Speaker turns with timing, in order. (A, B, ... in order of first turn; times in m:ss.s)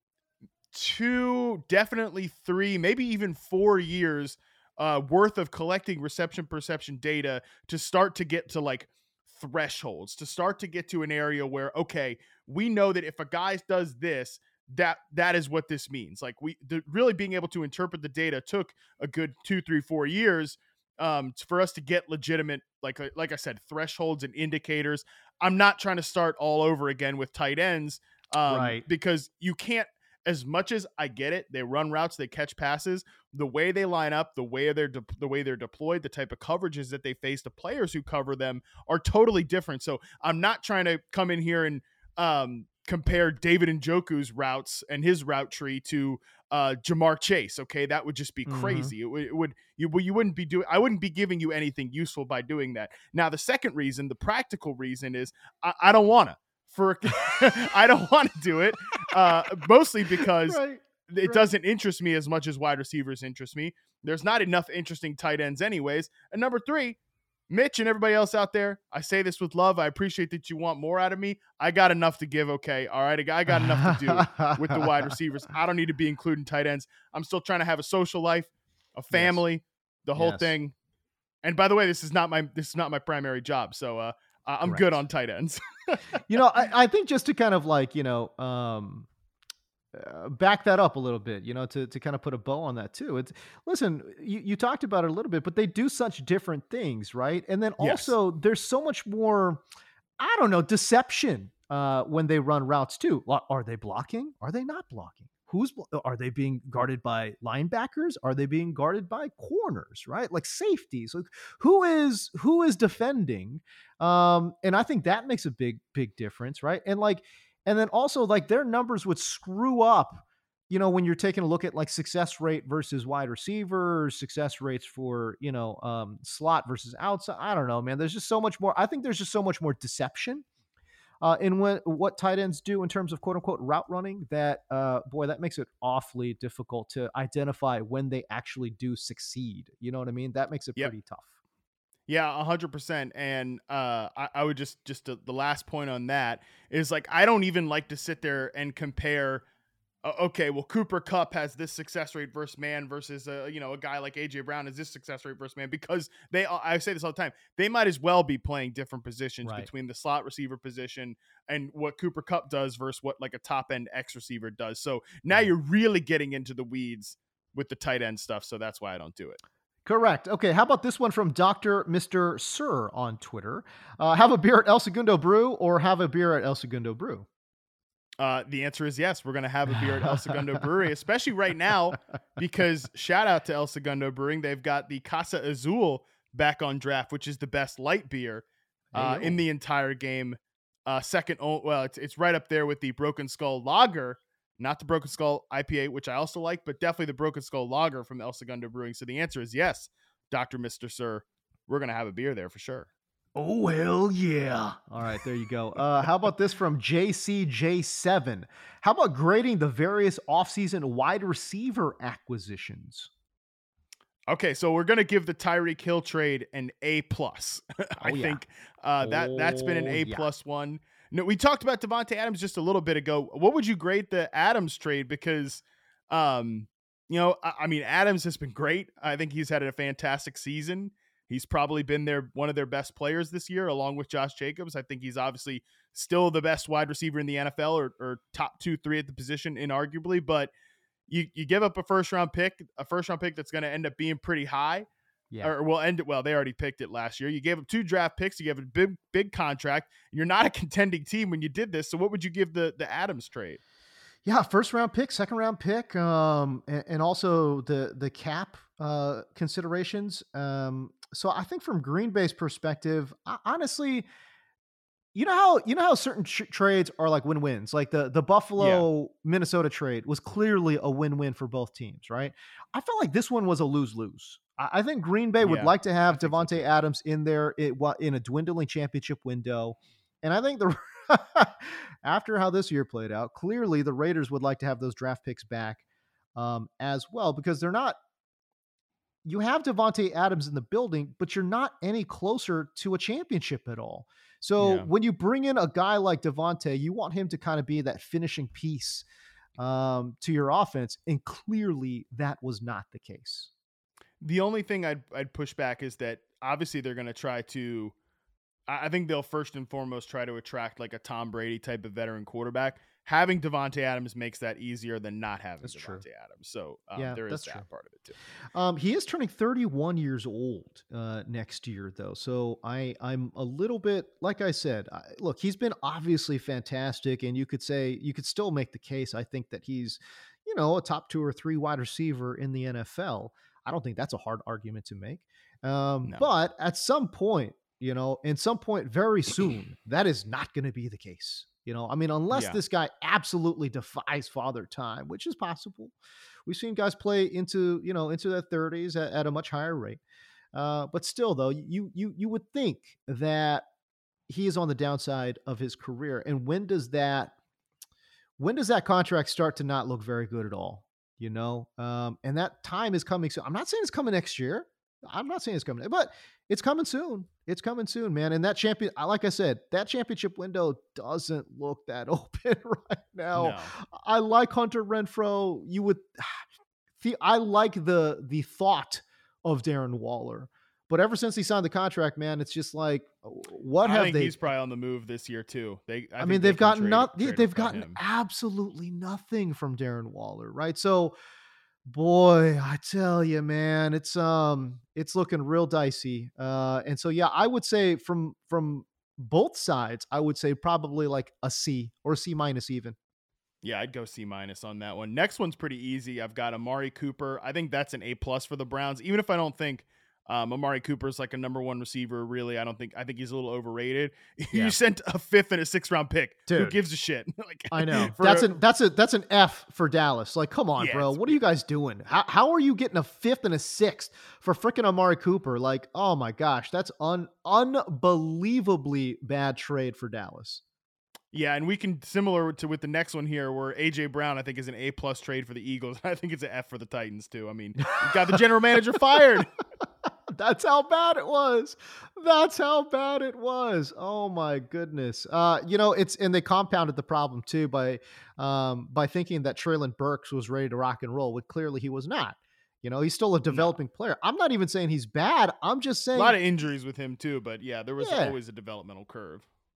0:00.7-1:07.0 A
0:28.5-0:28.8 B
0:48.5-0:48.9 B
1:00.2-1:01.4 B
1:07.5-1:20.7 A
1:13.5-1:15.1 B
1:19.1-1:19.4 B
1:20.2-1:20.5 B
1:21.4-1:26.0 A
1:24.6-1:24.9 B
1:26.3-1:29.1 B
1:29.9-1:39.6 B
1:37.8-1:38.1 A
1:40.2-2:10.4 B
2:11.2-2:21.3 B
2:22.1-2:29.4 A
2:30.0-2:49.4 A
2:49.8-2:57.2 B
2:58.2-3:22.9 A
2:59.7-3:00.4 B
3:08.9-3:09.4 B
3:23.4-3:33.1 B
3:34.3-4:00.5 A
3:38.0-3:38.4 B
3:39.0-3:40.3 B
4:01.1-4:04.8 A
4:05.4-4:13.6 A
4:14.2-4:24.1 B
4:25.1-4:45.8 B
4:28.6-4:28.9 A
4:35.4-4:36.7 A
4:46.3-4:48.0 B
4:49.2-4:59.0 B
4:54.6-4:54.9 A
4:59.6-5:03.5 B
5:04.2-5:07.9 A
5:08.7-5:18.2 A
5:15.6-5:16.0 B
5:17.0-5:17.6 B
5:18.5-5:45.9 B
5:42.3-5:42.6 A
5:46.4-5:50.0 B
5:50.5-5:53.6 B
5:54.3-5:57.3 B
5:58.4-6:16.4 B
6:13.3-6:13.7 A
6:17.0-6:24.4 B
6:23.8-6:28.0 A
6:26.2-6:31.1 B
6:31.8-6:43.0 B
6:43.6-6:58.5 A
6:56.5-6:56.8 B
6:57.7-7:10.6 B
7:00.8-7:01.4 A
7:11.3-7:19.5 A
7:20.3-7:36.4 B
7:36.1-7:39.4 A
7:38.0-7:38.4 B